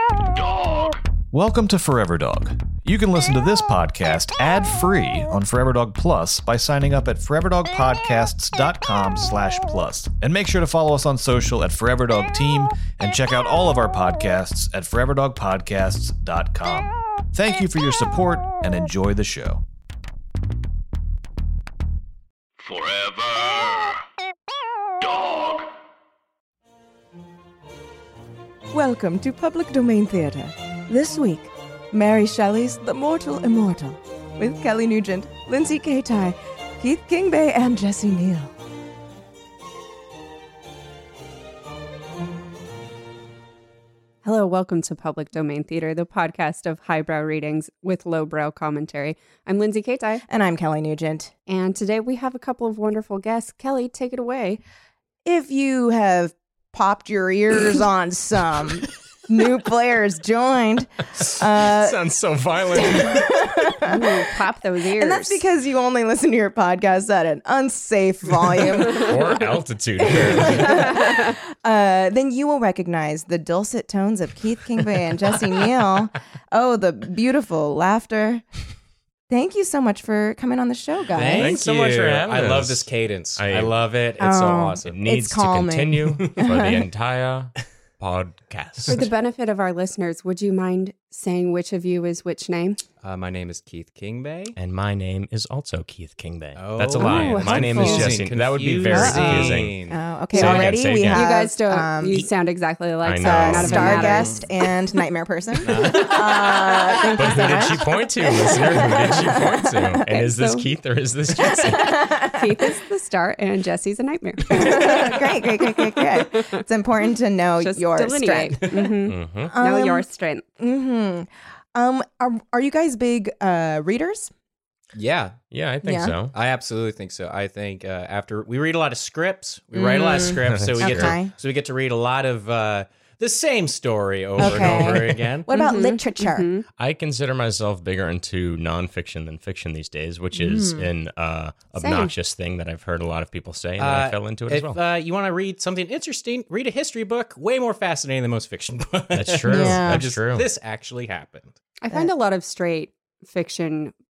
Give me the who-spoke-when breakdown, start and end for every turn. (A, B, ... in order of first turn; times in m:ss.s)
0:00.4-0:01.0 A
0:01.3-0:19.6 B
0:22.6-0:24.0 A
0:25.0-0:25.7 A
0:28.7-0:38.5 C
0:44.2-0:50.2 D
0:50.3-0:51.3 C
0:51.5-0:54.6 D
0:55.2-1:02.0 C
1:01.6-1:03.7 E
1:02.7-1:04.2 C
1:03.8-1:05.4 D
1:05.0-1:09.4 C
1:08.8-1:11.1 E
1:10.0-1:18.4 C
1:19.3-1:21.6 C
1:21.1-1:25.0 F
1:21.3-1:22.9 E
1:23.4-1:23.8 E
1:24.2-1:26.9 C
1:24.8-1:29.1 E
1:28.9-1:32.8 D
1:33.0-1:34.6 F
1:34.6-1:39.7 E
1:36.6-1:40.7 F
1:37.0-1:38.2 D
1:38.9-1:42.3 C
1:38.9-1:39.2 D
1:40.3-1:41.4 E
1:40.4-1:44.4 D
1:43.0-1:44.2 E
1:43.2-1:50.0 C
1:43.7-1:44.0 F
1:45.6-1:46.5 F
1:47.1-1:52.0 E
1:50.1-1:50.7 D
1:51.4-1:52.6 C
1:52.2-1:55.4 D
1:54.5-1:58.9 C
1:56.2-1:56.6 D
1:57.6-2:00.4 D
1:59.1-1:59.5 E
1:59.5-2:00.1 C
2:00.6-2:04.3 C
2:04.9-2:05.4 F
2:05.5-2:06.4 E
2:05.8-2:06.2 C
2:06.3-2:15.5 F
2:09.7-2:11.3 C
2:10.5-2:11.2 E
2:14.4-2:16.5 C
2:14.4-2:15.2 E
2:15.5-2:16.6 D
2:16.8-2:24.8 E
2:20.3-2:20.9 C
2:21.8-2:22.1 D
2:23.8-2:31.6 F
2:29.1-2:30.5 E
2:29.5-2:30.1 C
2:31.8-2:33.9 D